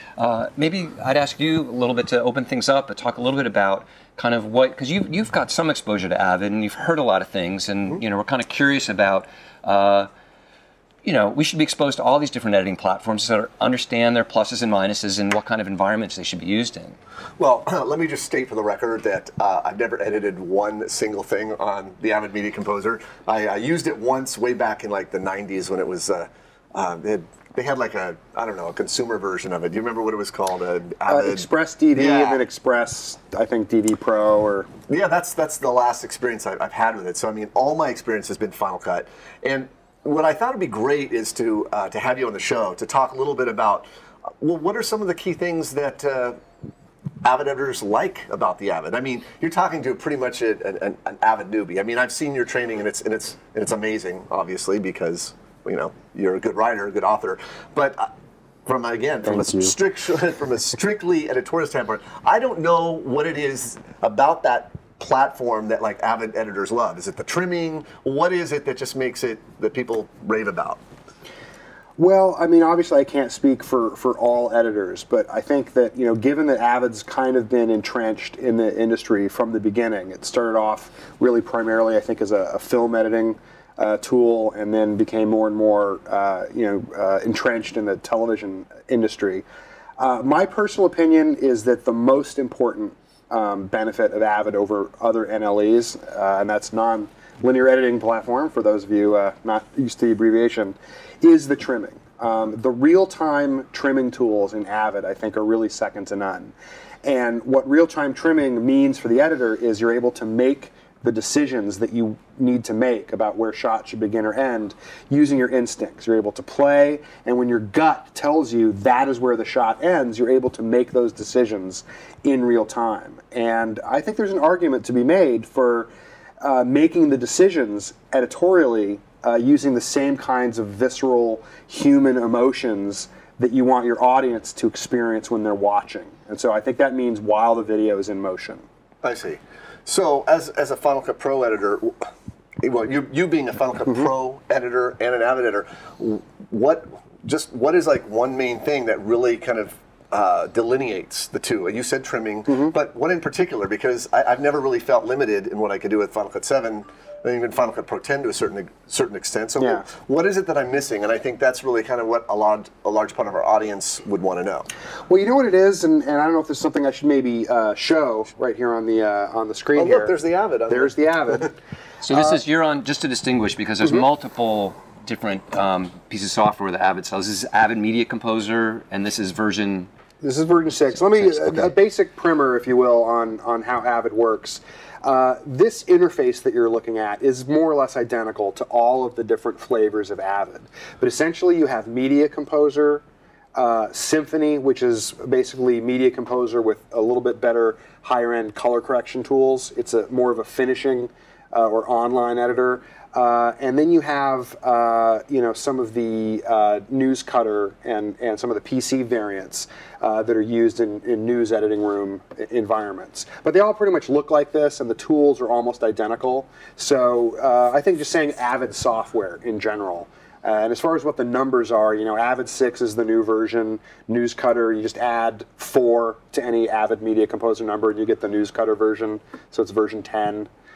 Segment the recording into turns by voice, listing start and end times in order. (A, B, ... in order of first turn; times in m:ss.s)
0:00.2-0:10.1 A
0:11.0-0:17.0 A
0:17.4-0:32.4 B
0:31.1-0:34.7 C
0:34.9-0:43.8 B
0:44.4-0:46.4 B
0:47.2-0:58.1 B
0:58.6-1:10.8 B
1:12.0-1:29.4 C
1:30.0-1:46.5 C
1:47.0-2:05.9 C
2:06.4-2:18.6 C
2:19.0-2:22.1 B
2:22.6-2:44.7 B
2:39.6-2:39.8 C
2:45.1-2:50.2 C
2:49.7-2:51.5 B
2:50.7-2:51.5 C
2:52.0-2:59.9 A
2:52.1-2:52.4 C
3:00.2-3:13.0 C
3:01.1-3:01.7 A
3:13.5-3:50.5 C